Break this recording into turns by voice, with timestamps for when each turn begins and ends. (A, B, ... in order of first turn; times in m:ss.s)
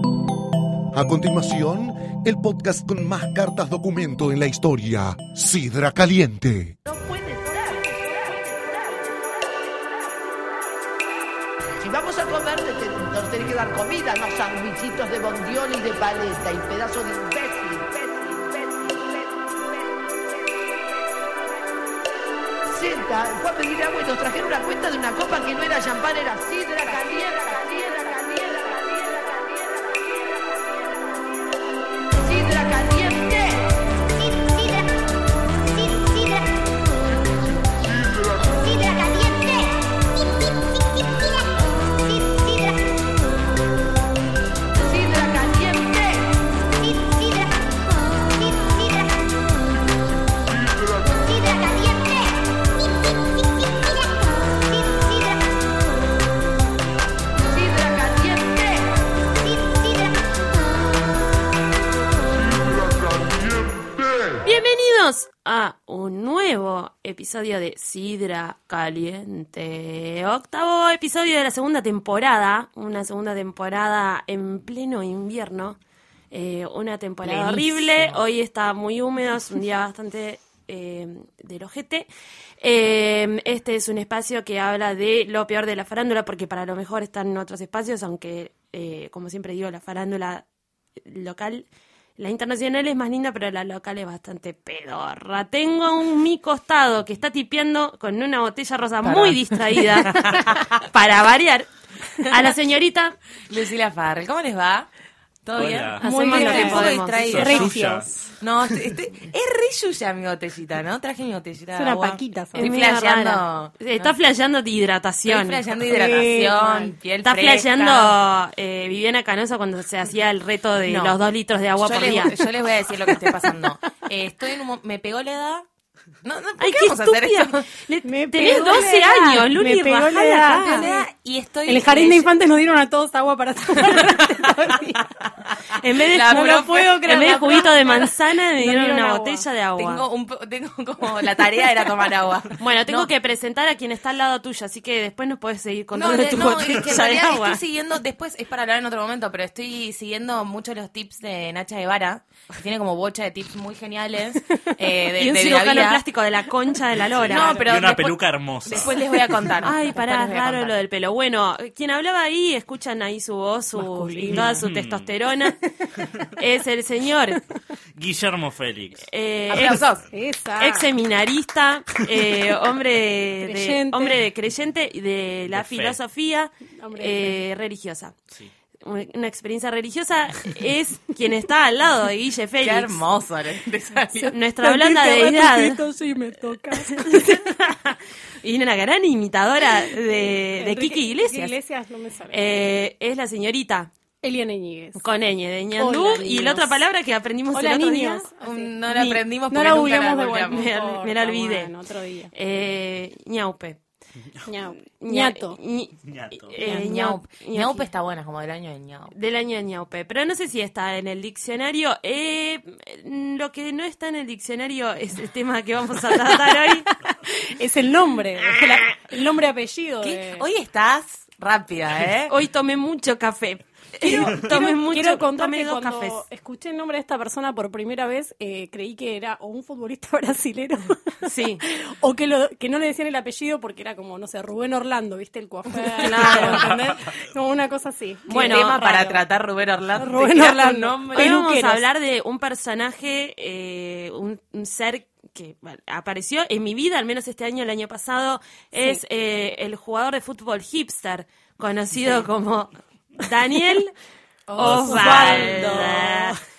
0:00.9-0:06.8 A
0:06.8-0:09.2 B
0:11.8-0:19.6 B
0:22.7-0:31.1 B
0:32.1-0:34.9 B
0:35.8-0:36.4 B
0:38.2-0:39.7 B
0:42.1-0:42.8 B
0:44.8-0:47.5 B
0:48.4-0:49.1 B
0:51.0-0:52.3 B
0:54.8-0:55.4 B
0:57.4-1:00.2 B
1:04.4-1:15.8 C
1:16.3-1:22.1 C
1:17.2-1:18.2 D
1:22.6-1:30.4 C
1:31.0-1:43.2 C
1:39.0-1:40.9 D
1:43.5-1:44.9 D
1:45.4-1:47.7 D
1:45.5-1:46.0 E
1:46.0-1:47.7 C
1:46.0-1:48.3 F
1:47.3-1:48.1 E
1:48.4-1:54.1 D
1:51.7-1:52.7 F
1:52.5-1:55.6 C
1:55.2-1:58.2 D
1:55.8-1:56.9 F
1:57.2-2:02.4 C
2:00.8-2:01.2 D
2:01.8-2:05.6 D
2:03.3-2:03.5 F
2:06.2-2:07.6 D
2:06.6-2:11.0 C
2:08.0-2:10.9 F
2:08.4-2:08.8 D
2:10.3-2:12.3 D
2:11.6-2:15.0 F
2:13.8-2:14.7 D
2:15.8-2:20.0 C
2:16.1-2:17.9 D
2:16.2-2:19.4 F
2:19.8-2:23.1 D
2:22.6-2:27.6 C
2:25.9-2:36.0 D
2:35.2-2:37.6 C
2:37.0-2:39.3 E
2:37.3-2:40.7 D
2:39.6-2:45.6 C
2:43.8-2:44.6 F
2:44.3-2:45.1 E
2:46.4-2:47.4 C
2:48.0-2:49.0 E
2:49.0-2:49.8 C
2:49.5-2:50.1 D
2:50.1-2:50.9 F
2:50.6-2:58.1 C
2:53.4-2:54.2 F
2:55.5-2:56.0 E
2:56.8-2:57.4 F
2:58.8-3:03.0 C
3:02.6-3:04.4 D
3:04.3-3:05.8 C
3:04.6-3:07.4 F
3:06.9-3:11.6 C
3:10.6-3:12.5 F
3:12.3-3:13.9 C
3:14.2-3:15.0 F
3:15.0-3:18.3 C
3:15.8-3:16.8 F
3:17.5-3:18.8 F
3:18.4-3:20.7 D
3:18.9-3:19.2 C
3:19.5-3:22.3 F
3:20.4-3:21.7 C
3:22.3-3:23.8 C
3:24.4-3:25.6 F
3:25.0-3:27.9 C
3:26.0-3:26.5 E
3:26.6-3:29.1 D
3:29.1-3:36.9 C
3:36.2-3:40.4 F
3:38.5-3:39.0 D
3:40.0-3:42.3 D
3:42.3-3:46.2 C
3:44.0-3:59.2 F
3:51.2-3:51.6 C
3:55.8-3:56.5 D
3:56.0-3:56.7 C
3:58.3-4:01.4 D
3:58.3-3:58.8 C
3:59.9-4:01.8 F
4:01.1-4:13.9 C
4:08.7-4:09.0 F
4:14.5-4:16.3 F
4:14.5-4:16.4 C
4:14.6-4:16.0 E
4:15.0-4:15.8 D